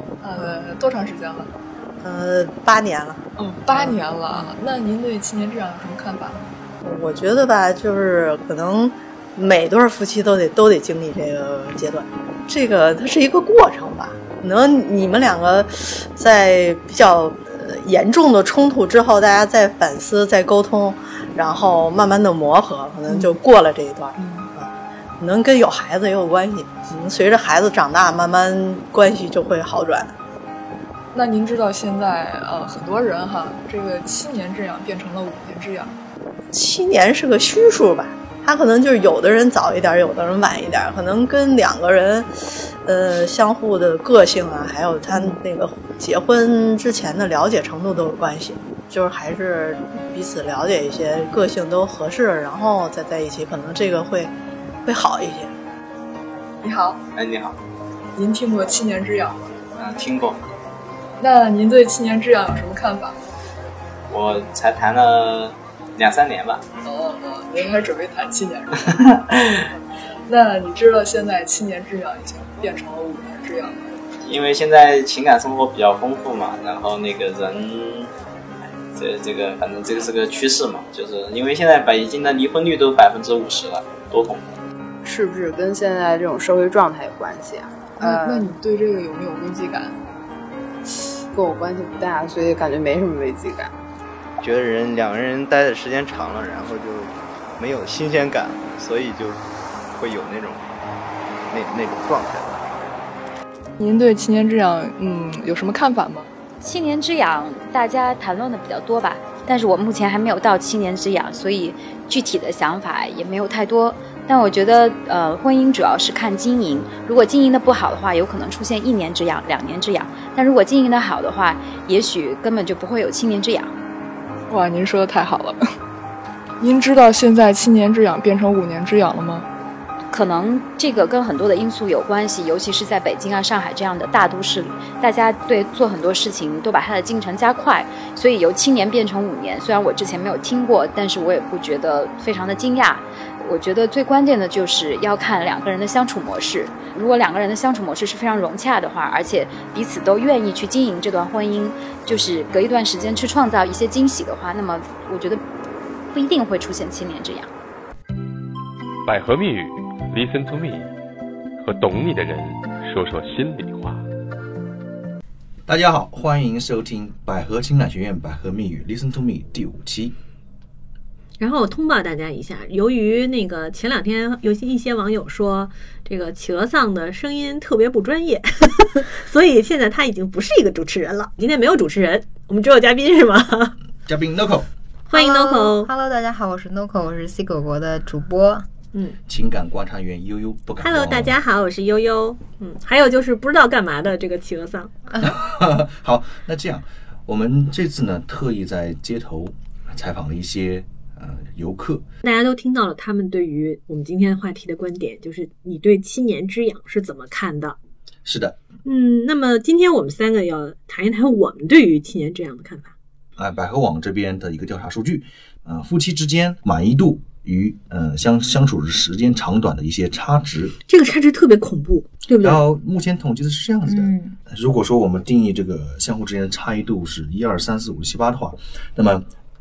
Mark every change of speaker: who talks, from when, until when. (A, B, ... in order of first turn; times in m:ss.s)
0:00.2-0:01.5 A
0:02.0-0:03.9 B
0:03.4-0:06.4 A
0:06.8-0:30.1 B
0:23.1-0:23.3 A
0:24.2-0:24.5 A
0:31.1-0:35.9 A
0:36.5-0:54.3 B
0:54.8-0:55.5 B
0:56.6-0:57.0 A
0:57.1-0:57.6 C
0:58.1-0:59.5 A
0:59.8-1:00.4 C
1:01.2-1:03.2 A
1:04.1-1:06.6 C
1:06.8-1:08.9 A
1:10.3-1:13.9 A
1:14.2-1:18.1 C
1:18.9-1:24.5 C
1:25.0-1:28.5 D
1:28.0-1:30.0 A
1:31.3-1:33.7 D
1:34.4-1:39.4 E
1:39.9-1:40.7 E
1:41.5-1:42.8 E
1:43.8-1:46.3 A
1:46.6-2:03.7 F
2:04.5-2:05.6 A
2:06.6-2:09.4 A
2:10.1-2:35.4 F
2:36.1-2:37.5 F
2:39.0-2:40.9 G
2:41.6-2:44.0 G
2:45.7-2:50.2 H
2:51.4-3:03.7 I
3:04.0-3:04.7 H
3:05.1-3:05.9 I
3:05.1-3:08.7 J
3:09.3-3:11.4 H
3:10.8-3:14.9 I
3:15.2-3:22.0 H
3:22.2-3:27.8 I
3:28.2-3:28.6 H
3:28.8-3:32.9 I
3:33.4-3:40.8 H
3:40.9-3:42.6 I
3:42.4-3:49.3 H
3:43.9-3:44.4 J